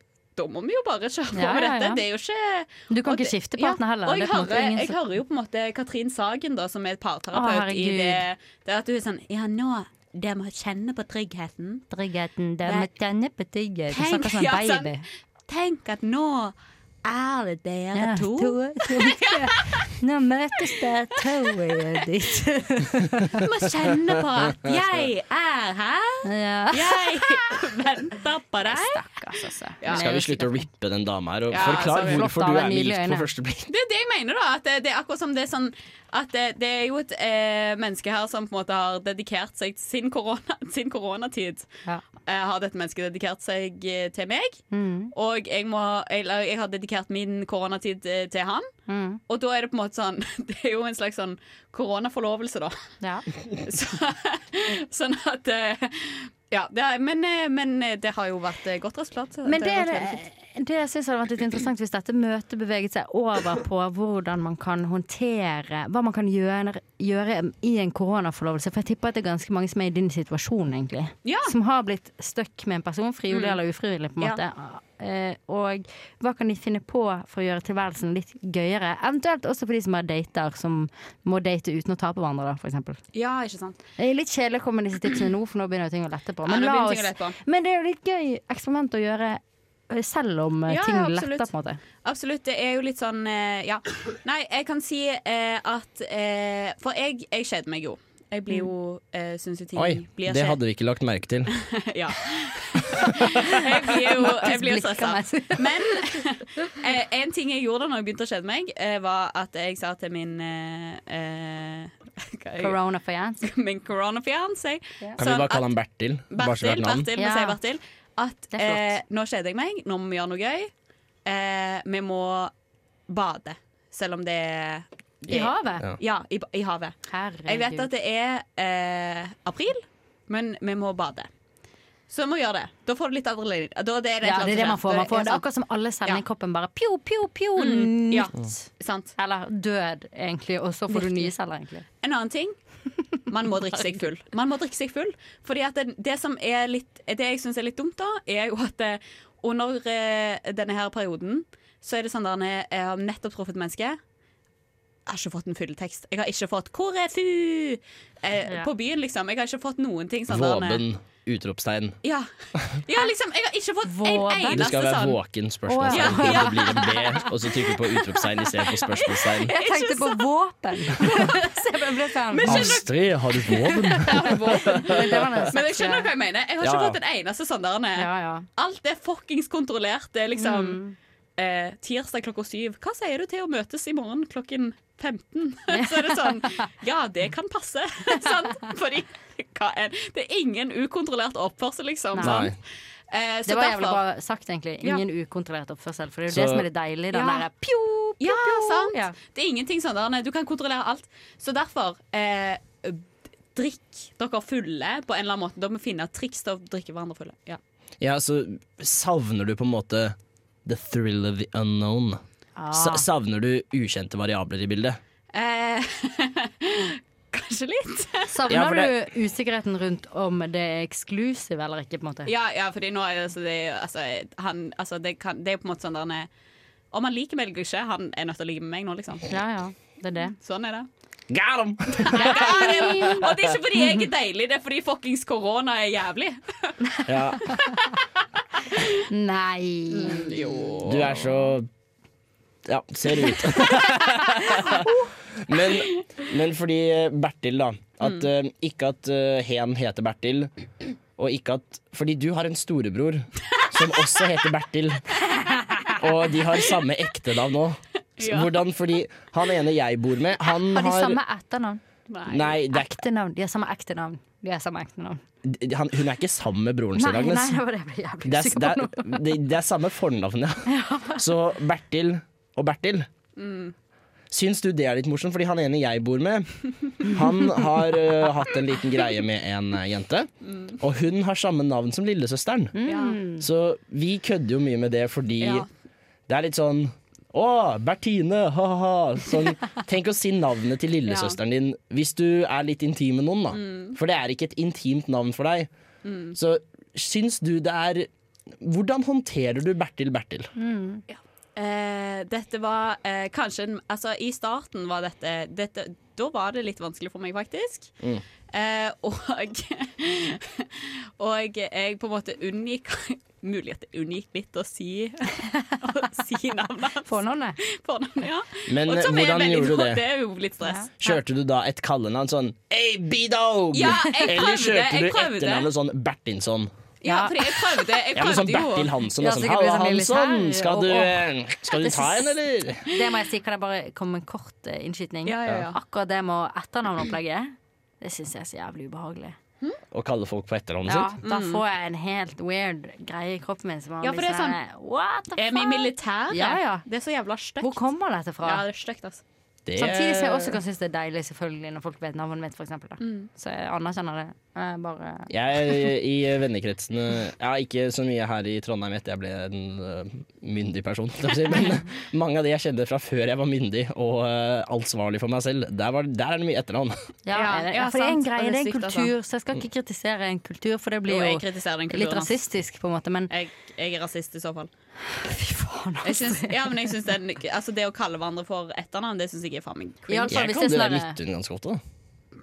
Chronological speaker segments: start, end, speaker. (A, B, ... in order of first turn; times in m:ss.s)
0:00.4-0:11.8 A
0:01.3-0:02.0 B
0:02.9-0:05.0 B
0:07.3-0:08.2 B
0:11.9-0:15.0 B
0:13.9-0:19.9 A
0:17.9-0:23.4 B
0:23.4-0:29.0 A
0:26.2-0:27.2 B
0:28.6-0:30.6 B
0:29.8-0:30.1 A
0:29.9-0:33.7 C
0:31.5-0:32.2 A
0:31.8-0:33.3 B
0:33.7-0:41.7 A
0:42.3-0:44.6 A
0:44.7-0:45.1 B
0:45.1-0:48.7 A
0:48.9-0:49.2 B
0:49.3-0:52.8 A
0:53.6-1:00.2 A
0:59.4-1:23.0 B
1:11.2-1:11.5 A
1:13.3-1:13.6 A
1:23.1-1:23.8 A
1:24.0-1:31.8 B
1:26.4-1:27.4 A
1:30.7-1:31.5 A
1:32.0-1:40.6 A
1:39.8-1:41.5 C
1:41.6-1:52.8 A
1:43.4-1:46.1 B
1:52.6-1:53.5 B
1:53.4-1:55.7 A
1:55.2-1:57.1 C
1:56.3-2:00.7 A
1:57.2-1:57.6 B
1:58.5-1:59.0 B
2:01.2-2:02.5 A
2:03.1-2:11.3 A
2:05.3-2:05.8 B
2:07.1-2:07.9 B
2:12.1-2:15.4 A
2:14.2-2:18.6 B
2:17.6-2:19.1 A
2:19.2-2:21.8 B
2:20.9-2:21.3 A
2:22.0-2:22.5 A
2:23.3-2:34.0 A
2:35.1-2:40.8 A
2:40.3-2:42.0 C
2:42.0-2:42.3 A
2:42.8-2:45.2 A
2:43.8-2:44.7 B
2:44.5-2:49.5 C
2:45.7-2:47.3 B
2:45.9-2:47.2 A
2:48.8-2:50.3 A
2:49.5-2:52.8 B
2:50.9-2:52.9 A
2:52.4-2:55.4 C
2:53.5-2:56.1 B
2:53.8-3:00.8 A
2:56.6-2:57.0 C
2:58.0-2:58.4 B
3:00.4-3:00.9 B
3:01.4-3:12.6 A
3:05.7-3:06.6 B
3:12.1-3:12.5 B
3:12.2-3:12.5 C
3:13.1-3:14.0 A
3:13.5-3:19.1 B
3:16.3-3:16.6 C
3:17.1-3:17.5 A
3:18.2-3:23.0 A
3:23.5-3:27.6 A
3:28.0-3:32.2 C
3:32.6-3:33.0 B
3:32.7-3:35.0 C
3:35.3-3:38.3 A
3:38.3-3:42.3 B
3:38.5-3:38.9 C
3:42.2-3:46.3 A
3:46.9-3:49.3 A
3:49.3-3:50.3 B
3:50.4-3:50.9 A
3:51.3-3:53.3 C
3:52.0-3:56.8 A
3:52.1-3:53.1 B
3:57.0-3:57.4 C
3:59.1-4:00.3 B
3:59.9-4:01.2 A
4:00.8-4:01.7 C
4:02.6-4:10.5 C
4:04.3-4:05.0 B
4:11.2-4:15.0 C
4:15.5-4:15.9 B
4:16.0-4:21.2 C
4:18.2-4:18.6 A
4:20.7-4:21.8 B
4:22.1-4:22.6 A
4:22.3-4:22.9 C
4:22.7-4:25.2 B
4:25.4-4:27.6 C
4:27.0-4:29.2 B
4:28.2-4:33.1 C
4:30.7-4:31.2 B
4:33.4-4:33.7 A
4:34.3-4:42.8 C
4:40.5-4:40.8 A
4:42.8-4:43.4 B
4:42.9-4:43.2 A
4:43.4-4:45.6 C
4:45.4-4:45.7 A
4:46.3-4:55.7 C
4:51.1-4:51.4 A
4:53.5-4:54.0 A
4:56.0-4:56.4 A
4:56.3-4:58.1 C
4:58.6-5:00.5 C
5:00.6-5:01.0 B
5:01.1-5:07.9 A
5:08.5-5:20.9 A
5:17.0-5:17.6 B
5:18.7-5:20.0 C
5:20.6-5:21.2 B
5:21.0-5:26.7 C
5:23.7-5:25.7 A
5:27.0-5:28.9 A
5:27.0-5:27.6 B
5:28.1-5:32.8 C
5:29.2-5:39.4 B
5:35.2-5:35.8 A
5:39.9-5:41.1 C
5:40.9-5:46.8 B
5:41.2-5:41.6 A
5:44.0-5:44.6 A
5:45.4-5:47.8 A
5:47.6-5:48.6 B
5:48.4-5:49.2 A
5:49.6-5:50.6 C
5:49.8-5:55.3 B
5:53.0-5:53.3 A
5:55.3-6:07.0 C
6:07.3-6:13.3 B
6:07.3-6:09.1 A
6:11.1-6:12.3 A
6:13.3-6:14.7 A
6:15.2-6:16.7 B
6:16.0-6:20.3 A
6:20.1-6:21.2 B
6:20.3-6:21.8 C